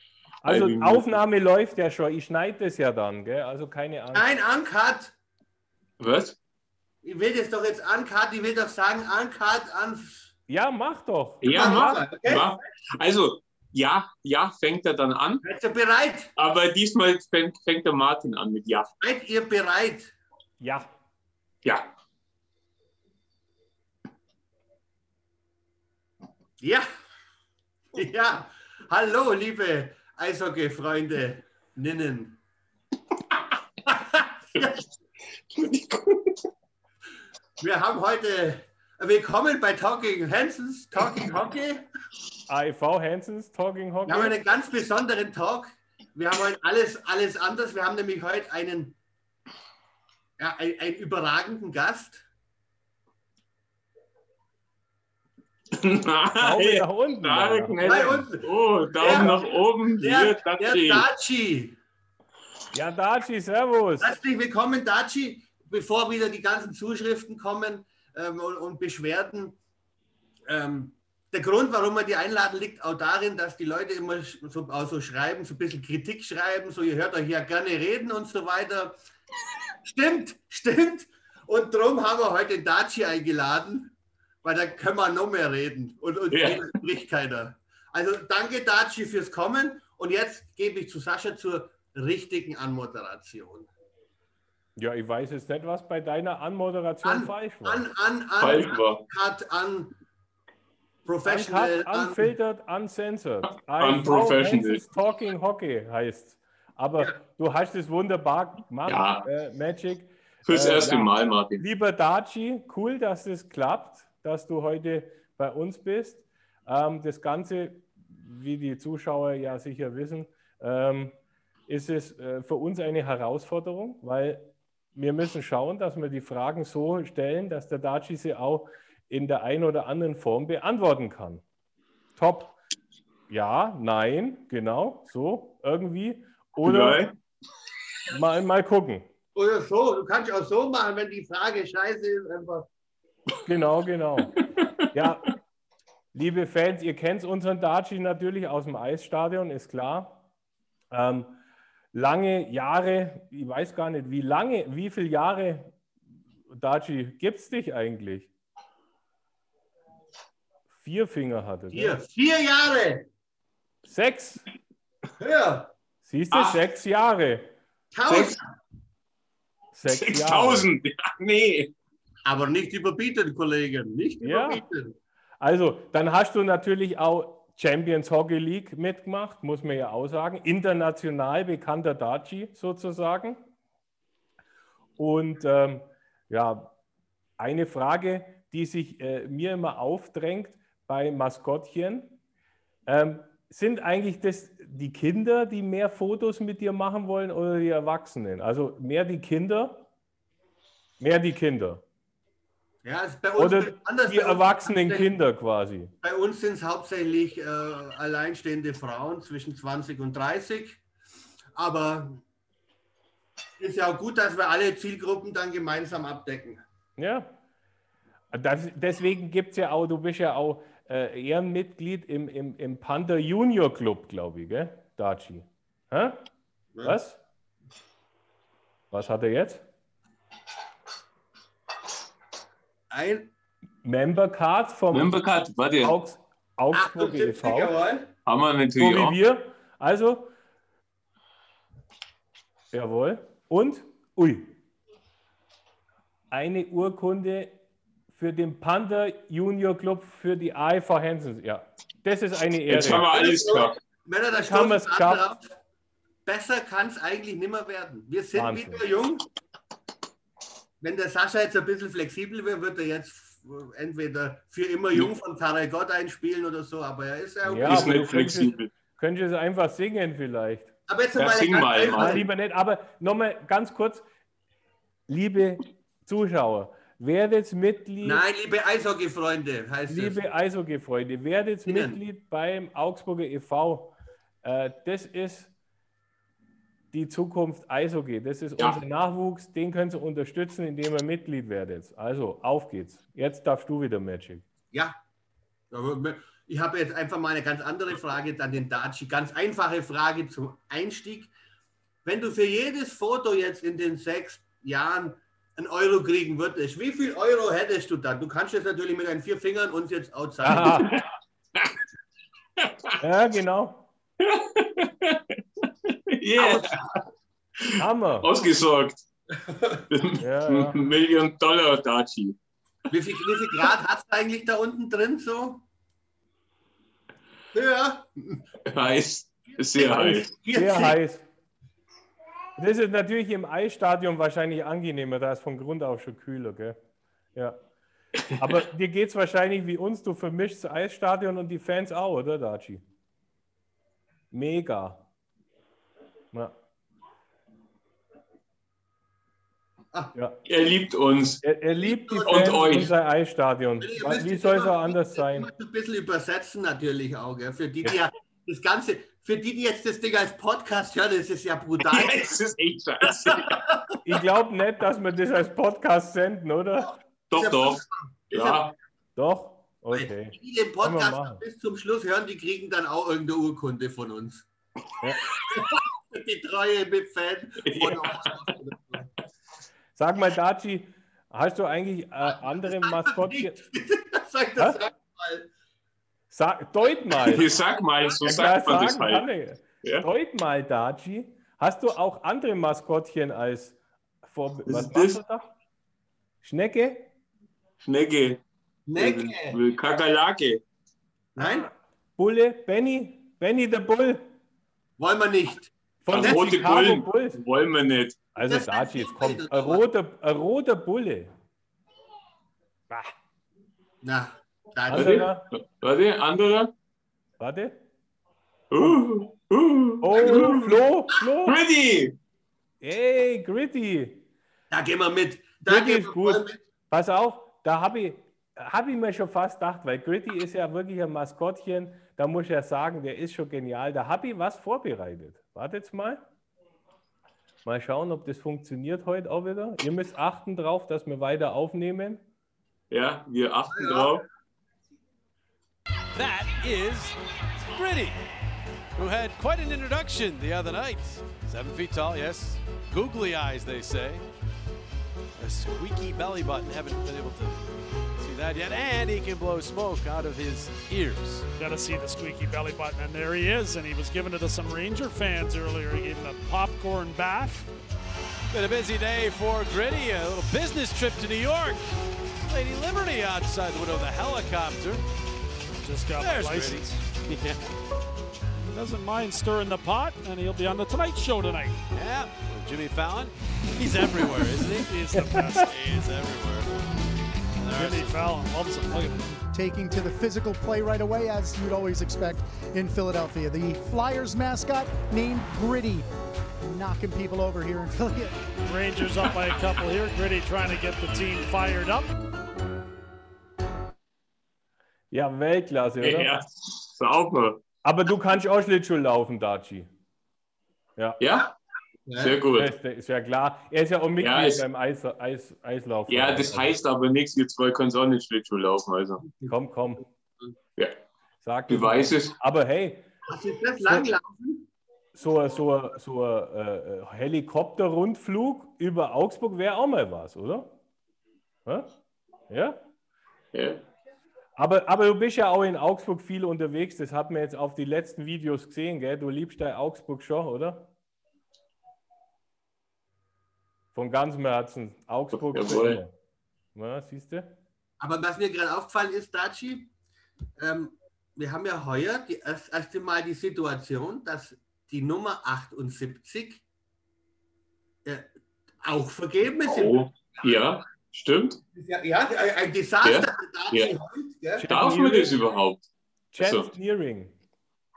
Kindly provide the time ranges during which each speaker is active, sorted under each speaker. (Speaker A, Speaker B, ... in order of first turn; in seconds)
Speaker A: 0.4-4.3, 10.5-11.7, 20.6-20.9, 42.5-44.4, 56.4-57.9, 59.0-59.3, 62.7-64.2, 94.8-97.9, 101.2-121.1, 121.7-131.4, 132.2-132.6, 133.3-137.0, 138.1-139.0, 143.4-144.3, 144.9-145.3, 146.1-150.2, 150.9-151.4, 151.9-155.7, 156.5-158.3, 160.7-162.0, 163.8-164.4, 166.0-167.5, 169.7-170.7, 174.2-174.6, 175.4-183.4, 185.0-186.7, 187.4-192.2, 192.9-199.9, 201.0-201.8, 203.4-205.9, 217.0-217.3, 218.3-226.3, 226.8-227.2, 228.9-229.7, 233.8-235.2, 235.8-237.7, 238.8-240.3, 242.7-244.5, 246.3-247.6, 248.1-253.1, 254.4-255.3, 258.4-258.9, 267.5-270.8, 272.0-274.0, 275.1-278.2, 279.9-285.5, 286.9-294.4, 310.4-311.0, 313.0-313.9, 317.8-318.3, 320.2-320.8, 329.9-331.2, 332.6-336.8, 338.4-342.8, 344.3-345.1, 351.4-355.5, 364.0-366.9, 369.2-371.4, 379.9-383.6, 386.3-387.4, 388.2-395.5, 396.4-397.1, 401.4-404.3, 406.0-407.4, 408.4-411.3, 414.9-415.4, 417.4-417.8, 420.0-421.6, 422.8-424.2, 425.7-436.2, 437.6-442.2, 485.1-485.6, 505.1-506.3, 507.8-509.9, 512.6-516.8, 519.5-520.0, 521.4-523.1, 525.1-530.7, 532.5-532.8, 534.6-540.9, 543.9-546.1, 546.8-547.5, 564.6-565.4, 566.3-567.4
Speaker B: 0.5-1.2, 6.0-6.4, 11.4-15.4, 16.4-18.9, 21.6-21.9, 35.5-36.4, 55.8-61.1, 86.3-86.6, 98.4-99.0, 103.5-104.8, 108.9-109.2, 110.5-111.6, 136.6-137.2, 166.3-166.6, 168.1-168.3, 169.9-171.7, 234.9-236.0, 238.3-239.2, 252.7-253.8, 267.6-268.7, 271.2-272.2, 310.6-311.0, 312.6-312.9, 314.2-316.9, 317.6-319.0, 319.9-322.4, 328.7-330.3, 350.5-351.4, 352.3-352.9, 361.8-363.6, 367.3-368.8, 377.7-378.3, 387.2-389.2, 394.7-395.2, 397.8-398.4, 399.0-400.6, 406.1-408.2, 414.9-416.7, 418.7-420.8, 421.5-422.2, 442.9-444.3, 506.0-507.6, 511.2-511.5, 512.2-512.7, 514.2-514.6, 516.1-519.2, 521.7-522.4, 533.5-533.8, 545.3-546.0, 559.7-561.6, 563.0-563.9, 564.7-565.9, 566.4-566.7
Speaker C: 4.1-5.2, 7.0-10.3, 11.5-12.6, 15.4-16.3, 19.0-20.1, 26.6-26.9, 27.9-32.4, 33.9-34.8, 37.6-41.8, 44.1-49.0, 50.4-52.2, 57.8-58.5, 59.0-59.5, 60.0-61.8, 64.0-69.6, 70.5-79.0, 79.8-83.9, 84.4-93.7, 97.0-99.9, 101.1-102.3, 139.3-142.7, 161.7-163.1, 165.2-165.7, 167.9-168.5, 172.3-174.9, 202.8-205.1, 206.0-210.8, 211.6-212.2, 213.6-216.6, 232.9-233.3, 236.7-238.1, 253.1-255.4, 256.3-259.3, 260.8-268.0, 270.9-272.3, 278.0-280.2, 281.6-282.0, 295.7-301.3, 302.1-310.9, 316.4-316.7, 319.3-319.9, 322.9-325.6, 327.5-328.4, 329.7-331.0, 351.8-352.9, 353.8-362.3, 367.4-368.6, 369.9-374.5, 375.5-379.1, 382.2-385.5, 398.9-399.6, 401.4-401.7, 405.0-406.5, 408.5-409.8, 414.0-415.3, 424.7-426.6, 443.7-444.2, 512.1-512.4, 519.2-519.5, 523.3-524.7, 548.0-549.9, 550.6-556.6, 558.8-560.0, 561.8-564.7
Speaker D: 446.1-448.2, 449.0-454.2, 455.4-457.6, 458.2-461.5, 468.5-471.9, 472.5-475.0, 476.1-477.6, 481.9-484.9, 485.6-486.8, 487.6-488.2
Speaker E: 461.6-467.7, 475.8-477.0, 478.7-481.8, 484.7-485.8, 487.7-489.4, 498.6-502.1
Speaker F: 489.5-498.5